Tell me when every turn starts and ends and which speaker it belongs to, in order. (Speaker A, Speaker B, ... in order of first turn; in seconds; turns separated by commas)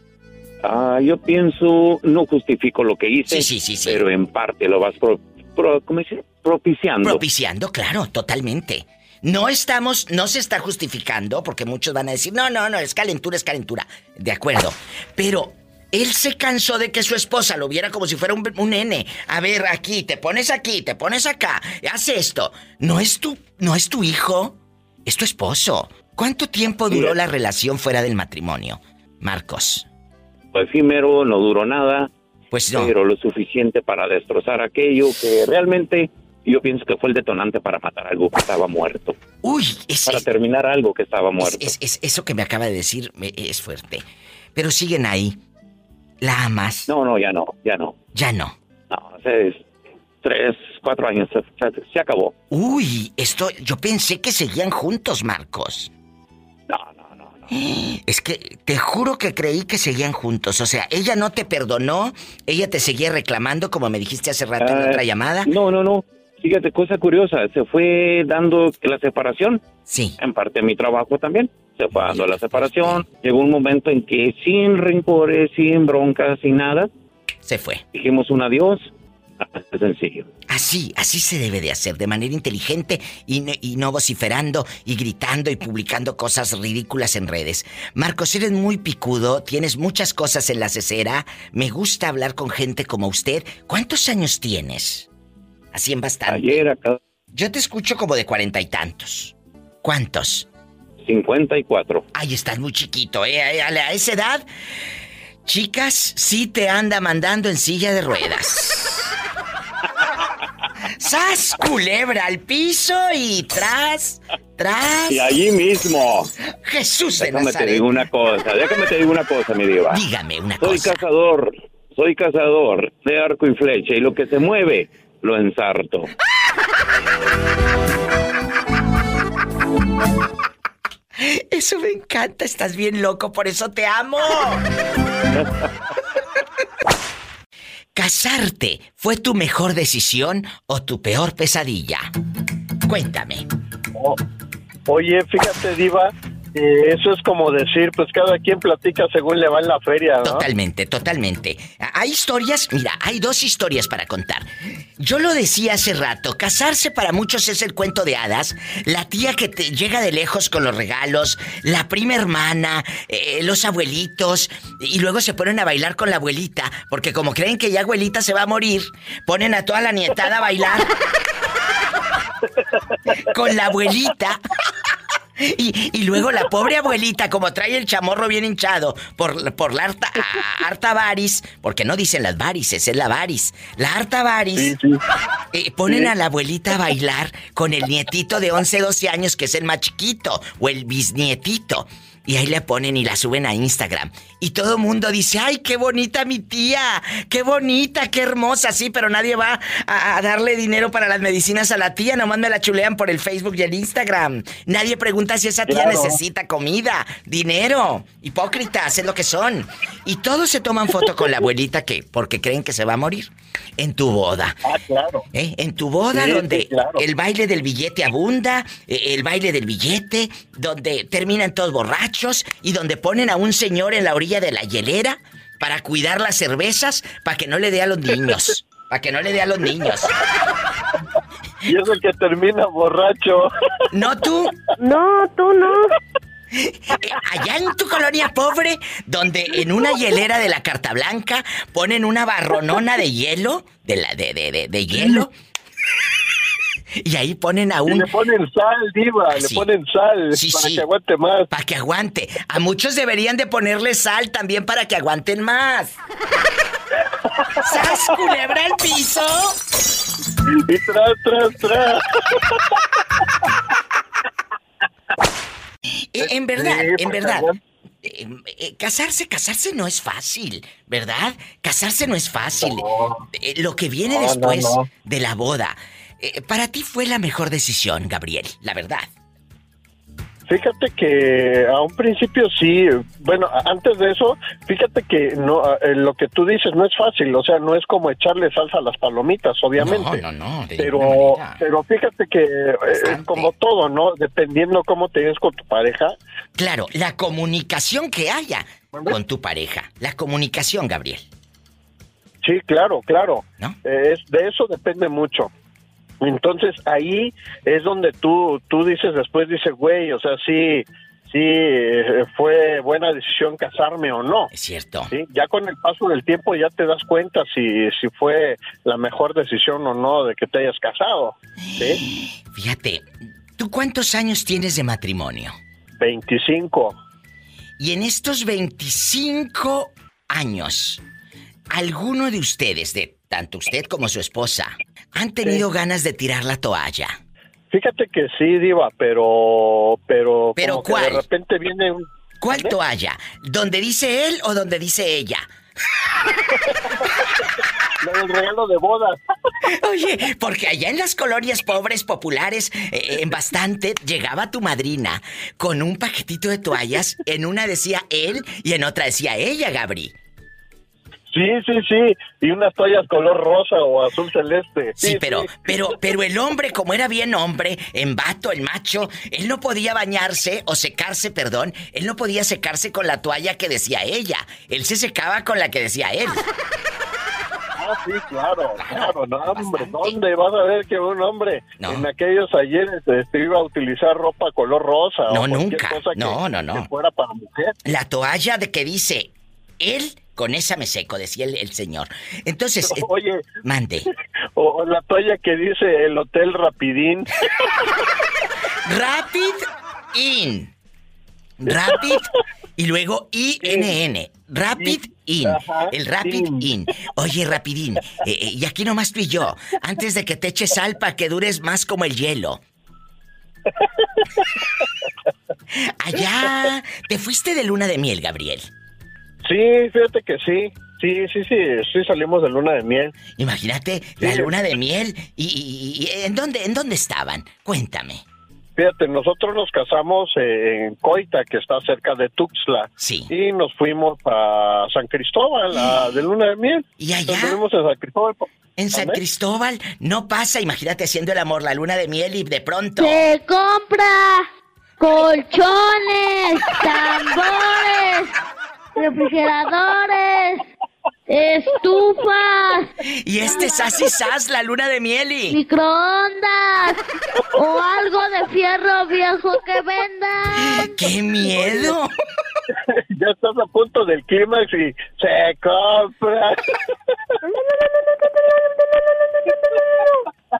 Speaker A: 0.6-7.2, Speaker B: 3.3-4.0, Speaker B: 7.0-29.9, Speaker A: 26.9-27.2, Speaker A: 30.5-32.1, Speaker B: 32.5-32.9, Speaker A: 32.7-39.2, Speaker B: 39.4-40.3, Speaker A: 40.1-41.7, Speaker B: 41.4-44.0, Speaker B: 44.5-45.4, Speaker B: 46.2-46.9, Speaker A: 46.9-48.0, Speaker B: 48.1-48.6, Speaker A: 48.9-49.7, Speaker A: 50.2-52.3, Speaker B: 52.5-55.9, Speaker A: 56.7-57.5, Speaker B: 57.5-65.5, Speaker A: 64.6-69.6, Speaker B: 69.9-70.2, Speaker A: 70.2-76.9, Speaker B: 72.0-73.0, Speaker B: 77.5-77.8, Speaker A: 77.9-78.9, Speaker A: 79.4-80.3, Speaker B: 80.5-95.1, Speaker B: 95.7-96.7, Speaker A: 96.3-97.0, Speaker B: 97.3-100.5, Speaker A: 101.0-102.0, Speaker B: 102.1-104.5, Speaker B: 105.5-109.2, Speaker B: 111.0-115.4, Speaker A: 115.1-116.3, Speaker B: 116.6-117.9, Speaker A: 117.2-120.0, Speaker B: 119.9-121.0, Speaker A: 120.6-126.1, Speaker B: 131.2-134.6, Speaker B: 137.9-142.1, Speaker B: 142.8-143.5, Speaker C: 144.9-150.5, Speaker B: 150.2-170.9, Speaker B: 173.2-174.4, Speaker B: 175.4-184.8, Speaker C: 184.6-185.0, Speaker B: 185.5-214.6, Speaker C: 205.7-206.2, Speaker C: 214.7-215.2, Speaker B: 215.3-230.1, Speaker C: 216.1-217.0, Speaker C: 231.7-233.5, Speaker B: 233.9-234.6, Speaker D: 234.8-235.9, Speaker B: 236.5-245.3, Speaker B: 247.0-248.1, Speaker C: 247.9-251.5, Speaker B: 249.3-249.7, Speaker B: 250.3-250.8, Speaker B: 251.5-256.0, Speaker B: 257.6-259.6, Speaker C: 257.9-258.1, Speaker C: 260.5-262.6, Speaker B: 266.1-267.5, Speaker C: 266.2-267.6, Speaker B: 268.0-279.1, Speaker C: 272.6-273.2, Speaker C: 274.1-274.9, Speaker C: 280.5-290.2, Speaker B: 289.8-291.6, Speaker C: 290.8-296.2, Speaker B: 292.9-293.5, Speaker B: 296.6-301.2, Speaker C: 302.4-305.5, Speaker C: 306.2-314.5, Speaker B: 314.5-315.1, Speaker C: 315.1-322.0, Speaker B: 322.5-325.6, Speaker C: 326.0-327.0, Speaker B: 327.8-331.0, Speaker B: 331.7-337.2, Speaker C: 337.7-342.7, Speaker B: 340.6-341.3, Speaker B: 342.4-345.5, Speaker C: 346.9-347.1, Speaker C: 348.0-349.2, Speaker B: 349.7-360.1, Speaker C: 361.3-365.9, Speaker B: 365.0-376.5, Speaker C: 377.8-387.7, Speaker B: 378.8-380.2, Speaker B: 381.8-382.1, Speaker B: 385.3-386.9, Speaker B: 387.9-393.1, Speaker C: 392.8-393.5, Speaker B: 393.6-394.1, Speaker C: 394.6-397.8, Speaker B: 398.9-400.7, Speaker B: 401.6-412.6, Speaker C: 401.7-402.2, Speaker C: 403.6-404.0, Speaker C: 404.8-406.7, Speaker B: 416.0-418.7, Speaker C: 419.4-423.1, Speaker B: 423.4-428.2, Speaker C: 424.2-424.5, Speaker C: 428.8-439.2, Speaker B: 433.0-433.3, Speaker B: 437.0-437.6, Speaker B: 438.8-443.3, Speaker E: 443.0-444.5, Speaker E: 445.0-448.3, Speaker E: 449.0-450.6, Speaker E: 451.3-452.9, Speaker B: 453.2-455.6, Speaker E: 453.4-454.0, Speaker E: 455.5-457.0, Speaker E: 457.6-460.9, Speaker B: 460.6-462.1, Speaker C: 463.0-466.8, Speaker D: 467.5-470.2